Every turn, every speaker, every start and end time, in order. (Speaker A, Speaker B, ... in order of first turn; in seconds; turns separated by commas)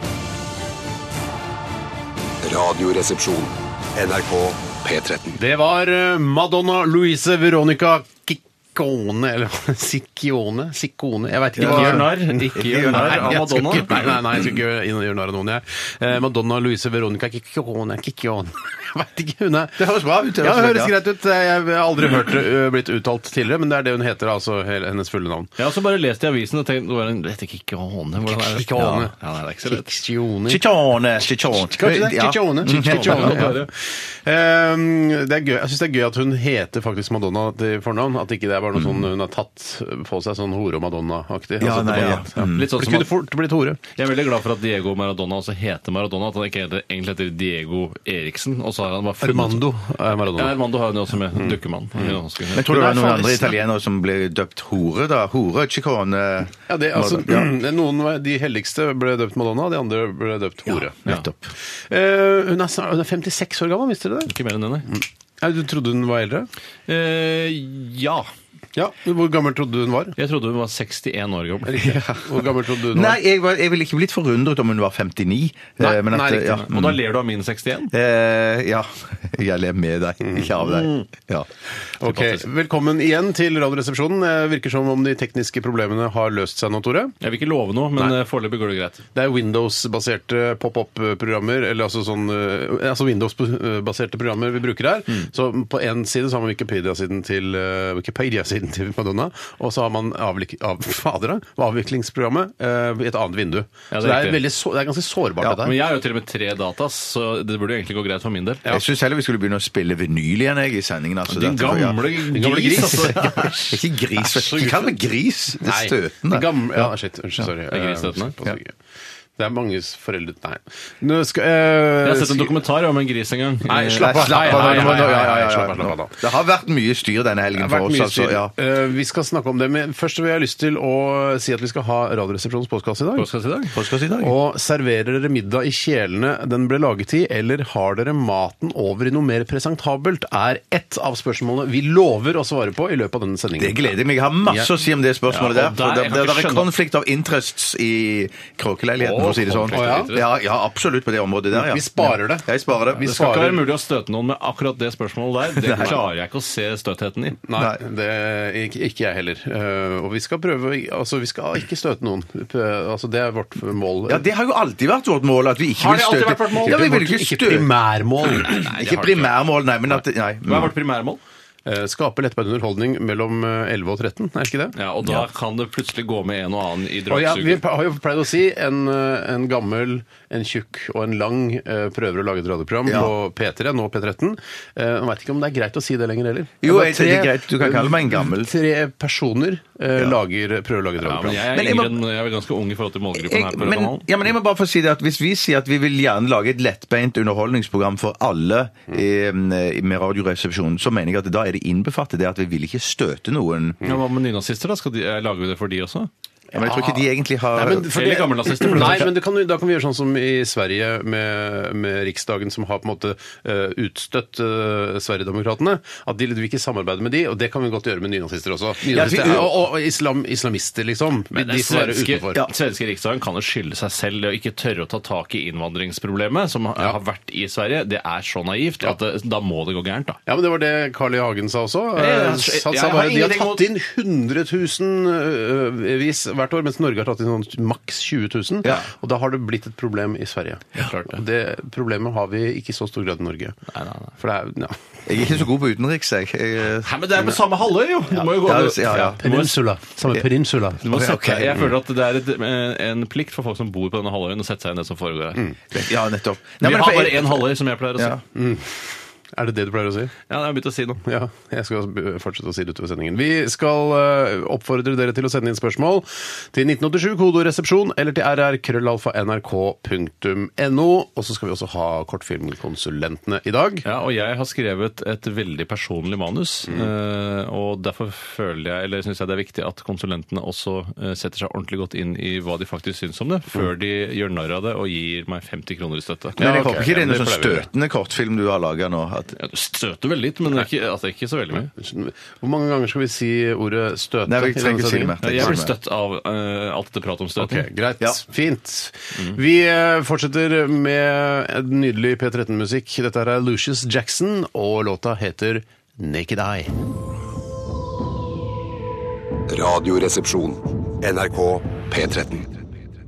Speaker A: 2.4-5.4, Speaker B: 5.4-25.5, Speaker C: 11.6-14.1, Speaker D: 11.6-14.0, Speaker C: 19.8-20.9, Speaker D: 25.6-29.9, Speaker B: 28.2-29.1, Speaker C: 28.8-29.1, Speaker B: 29.6-30.6, Speaker C: 30.5-33.6, Speaker B: 31.5-43.8, Speaker D: 32.7-33.7, Speaker C: 38.8-39.0, Speaker C: 41.6-42.8, Speaker D: 42.0-43.1, Speaker D: 43.9-49.7, Speaker B: 49.2-50.6, Speaker D: 50.3-52.7, Speaker B: 51.4-53.5, Speaker C: 52.5-57.5, Speaker B: 56.7-61.0, Speaker C: 60.7-61.4, Speaker B: 61.9-64.3, Speaker D: 64.3-64.9, Speaker B: 64.9-66.5, Speaker D: 66.9-68.3, Speaker B: 68.8-70.2, Speaker D: 70.2-72.0, Speaker B: 71.7-73.2, Speaker C: 72.8-77.0, Speaker B: 75.8-76.6, Speaker D: 76.5-77.9, Speaker C: 77.9-81.5, Speaker B: 80.2-80.5, Speaker D: 80.6-81.0, Speaker B: 82.0-87.2, Speaker C: 82.0-82.4, Speaker D: 87.2-89.0, Speaker B: 89.2-105.8, Speaker D: 103.9-104.4, Speaker D: 105.6-108.7, Speaker C: 108.7-112.1, Speaker D: 111.3-113.8, Speaker B: 112.3-113.2, Speaker C: 113.0-116.9, Speaker B: 114.2-115.0, Speaker B: 115.6-118.8, Speaker D: 117.7-118.3, Speaker B: 119.4-122.6, Speaker D: 122.0-125.3, Speaker B: 123.7-126.2, Speaker C: 124.0-128.5, Speaker B: 127.5-133.3, Speaker D: 133.2-133.8, Speaker C: 133.7-134.3, Speaker B: 134.2-143.9, Speaker C: 143.6-153.1, Speaker D: 145.3-146.7, Speaker D: 149.0-150.3, Speaker B: 149.7-150.2, Speaker B: 151.5-153.7, Speaker D: 153.0-157.4, Speaker C: 155.6-156.0, Speaker B: 157.5-164.3, Speaker C: 164.1-167.7, Speaker B: 165.8-168.7, Speaker C: 168.3-170.7, Speaker D: 168.5-169.3, Speaker D: 170.5-171.2, Speaker B: 171.7-174.8, Speaker D: 174.7-177.6, Speaker B: 177.1-191.4, Speaker C: 182.8-183.1, Speaker C: 186.6-188.5, Speaker D: 191.0-194.1, Speaker C: 191.5-192.0, Speaker C: 193.2-203.8, Speaker D: 203.8-206.1, Speaker B: 206.5-222.4, Speaker C: 206.6-207.9, Speaker D: 207.9-209.1, Speaker C: 218.8-219.6, Speaker D: 221.3-230.2, Speaker B: 230.3-243.6, Speaker D: 232.0-233.7, Speaker D: 240.8-241.2, Speaker D: 243.7-244.1, Speaker B: 244.2-244.8, Speaker C: 245.1-247.3, Speaker D: 246.8-249.6, Speaker C: 248.1-249.2, Speaker B: 248.8-250.9, Speaker D: 250.8-255.4, Speaker C: 250.9-251.7, Speaker C: 255.7-258.2, Speaker D: 256.6-258.2, Speaker B: 258.4-260.1, Speaker D: 260.3-261.0, Speaker B: 261.0-273.8, Speaker D: 273.8-286.4, Speaker B: 286.4-287.7, Speaker C: 286.4-289.4, Speaker D: 289.4-291.7, Speaker B: 291.8-295.6, Speaker C: 294.2-295.8, Speaker D: 295.2-297.7, Speaker B: 297.4-306.8, Speaker A: 309.5-312.6